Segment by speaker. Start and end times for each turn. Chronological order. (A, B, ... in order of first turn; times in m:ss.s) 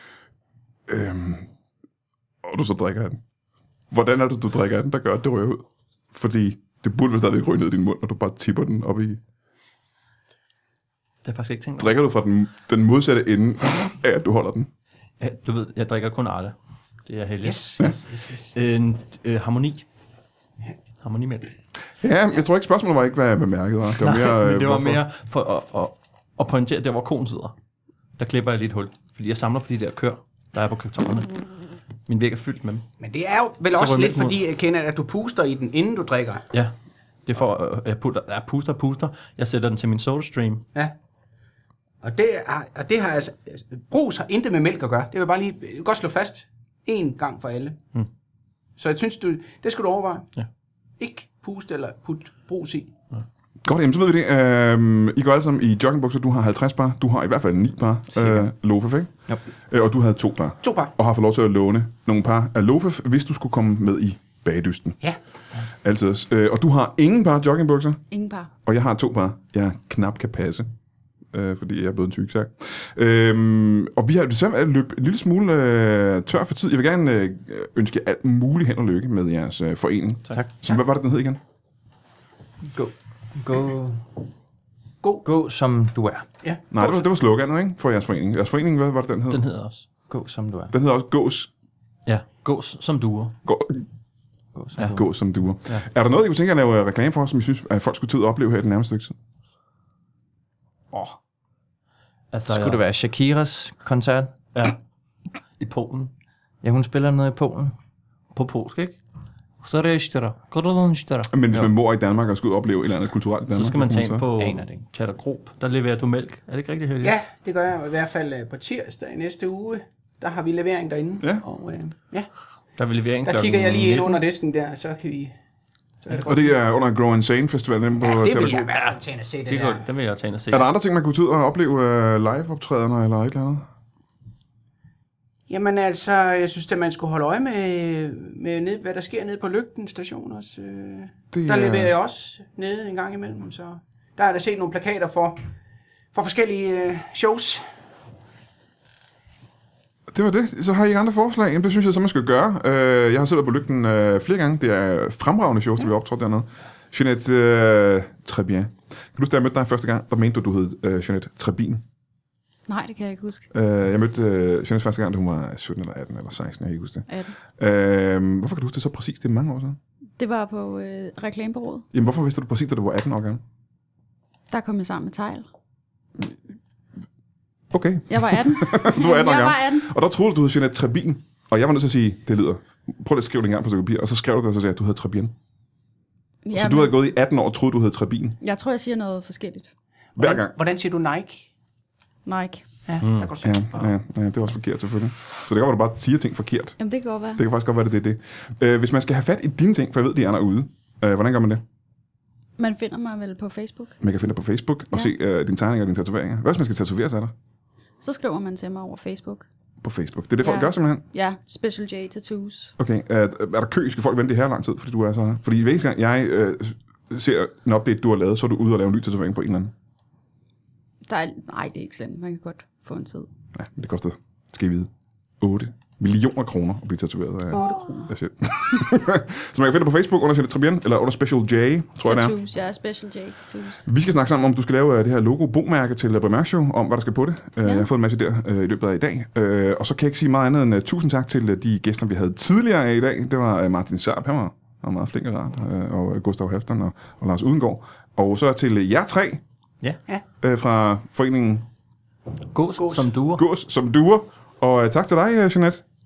0:00.9-0:01.5 A
0:02.4-0:03.2 A
0:03.9-0:09.2 A
0:11.2-0:11.9 B
0:11.8-0:14.7 A
0:15.2-0:18.0 B
0:17.4-0:18.5 C
0:18.5-0:19.8 B
0:21.0-0:21.5 B
0:22.0-0:25.0 A
0:24.0-0:27.5 B
0:28.2-0:31.4 B
0:32.1-0:32.9 B
0:33.0-0:36.5 C
0:33.7-0:34.4 B
0:37.2-0:40.7 B
0:42.0-0:47.8 C
0:48.8-0:50.3 C
0:51.0-0:52.9 C
0:53.6-0:59.1 A
0:59.7-1:05.0 A
1:00.6-1:00.9 C
1:05.8-1:08.0 A
1:08.1-1:08.5 D
1:08.6-1:10.7 A
1:11.3-1:21.4 A
1:22.7-1:24.1 E
1:25.2-1:26.2 E
1:26.4-1:27.0 C
1:26.7-1:29.4 A
1:29.3-1:29.8 B
1:30.1-1:30.7 E
1:30.7-1:31.5 A
1:32.0-1:33.4 B
1:33.4-1:33.8 A
1:34.5-1:35.0 E
1:34.8-1:39.2 A
1:40.9-1:41.2 B
1:42.3-1:42.8 B
1:42.5-1:44.3 E
1:45.6-1:46.1 B
1:46.6-1:47.7 E
1:48.3-1:49.0 B
1:49.6-1:51.7 B
1:51.3-1:54.2 A
1:53.5-1:57.2 B
1:54.4-1:54.8 E
1:57.0-2:02.3 C
2:02.8-2:04.2 B
2:03.2-2:05.3 C
2:06.0-2:06.5 C
2:06.1-2:08.7 A
2:08.0-2:09.8 C
2:08.7-2:10.7 B
2:10.5-2:13.6 A
2:15.5-2:25.4 C
2:21.3-2:21.9 A
2:26.1-2:27.6 C
2:30.1-2:41.8 A
2:42.7-2:43.5 D
2:43.5-2:49.8 A
2:47.1-2:47.3 D
2:50.2-2:51.8 D
2:51.9-2:53.4 A
2:54.5-2:55.5 D
2:57.7-3:05.3 A
2:58.1-2:59.9 D
3:06.4-3:07.0 D
3:06.5-3:08.4 A
3:08.4-3:09.7 D
3:10.2-3:11.5 C
3:10.2-3:10.5 A
3:12.2-3:12.6 D
3:12.9-3:13.8 C
3:13.0-3:13.3 B
3:13.4-3:16.8 A
3:16.8-3:17.4 D
3:17.3-3:21.6 A
3:22.6-3:24.0 D
3:24.0-3:27.3 A
3:28.0-3:29.5 D
3:29.8-3:31.0 A
3:30.4-3:32.7 D
3:32.8-3:39.7 A
3:41.1-3:43.3 D
3:43.5-3:44.9 A
3:45.4-3:52.4 A
3:47.5-3:48.1 D
3:52.0-3:53.8 D
3:53.8-4:09.4 A
4:10.4-4:11.6 A
4:12.5-4:13.4 B
4:12.8-4:13.0 C
4:13.3-4:15.8 A